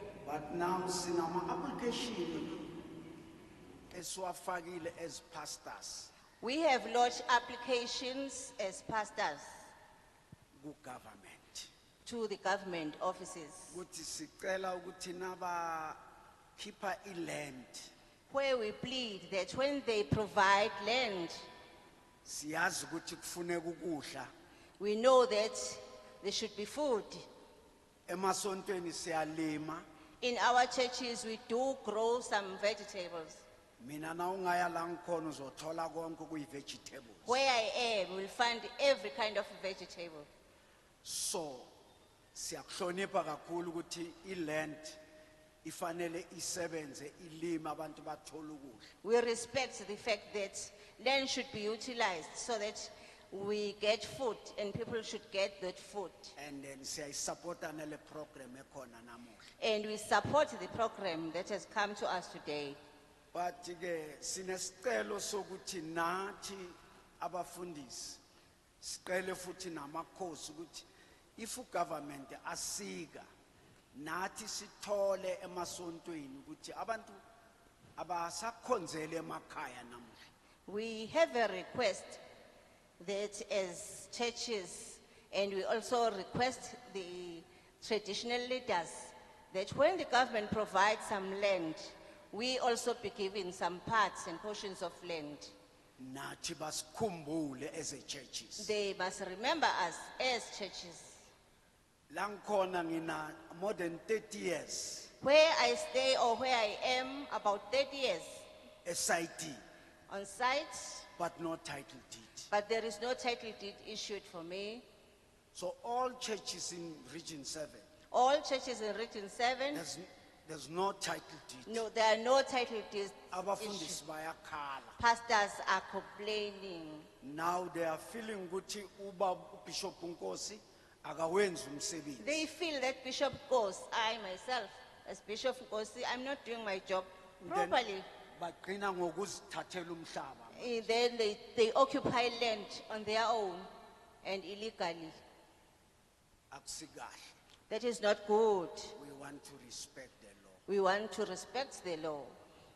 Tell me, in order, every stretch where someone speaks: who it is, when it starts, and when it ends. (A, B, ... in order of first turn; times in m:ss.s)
0:00.2-0:02.7 A
0:03.9-0:06.1 A
0:06.4-0:09.6 B
0:10.6-0:11.7 A
0:12.0-0:13.8 B
0:13.7-0:16.0 A
0:16.6-0:17.9 A
0:18.3-0:21.4 B
0:22.2-0:24.3 A
0:24.8-0:27.3 B
0:28.1-0:29.8 A
0:30.2-0:33.4 B
0:33.8-0:37.4 A
0:37.3-0:40.3 B
0:41.0-0:41.7 A
0:42.3-0:45.0 A
0:45.6-0:48.9 A
0:49.0-0:56.4 B
0:56.4-0:59.5 A
0:59.6-1:02.8 B
1:03.3-1:08.2 A
1:08.8-1:13.3 A
1:13.9-1:17.2 A
1:18.0-1:20.3 A
1:20.7-1:22.2 B
1:23.0-1:35.5 B
1:36.0-1:38.7 A
1:38.6-1:41.3 B
1:42.1-1:45.1 A
1:45.2-1:48.5 B
1:48.8-1:49.6 A
1:50.1-1:51.1 B
1:51.2-1:52.5 A
1:52.5-1:54.8 B
1:55.5-1:57.8 A
1:58.1-1:59.8 B
1:59.7-2:01.8 A
2:01.7-2:04.0 B
2:03.3-2:05.0 A
2:05.0-2:07.1 B
2:07.2-2:12.4 A
2:12.2-2:18.1 B
2:17.4-2:17.8 A
2:18.4-2:20.8 A
2:20.5-2:23.7 B
2:24.2-2:25.2 B
2:26.5-2:27.3 A
2:27.7-2:28.9 B
2:28.9-2:30.6 A
2:30.7-2:32.4 B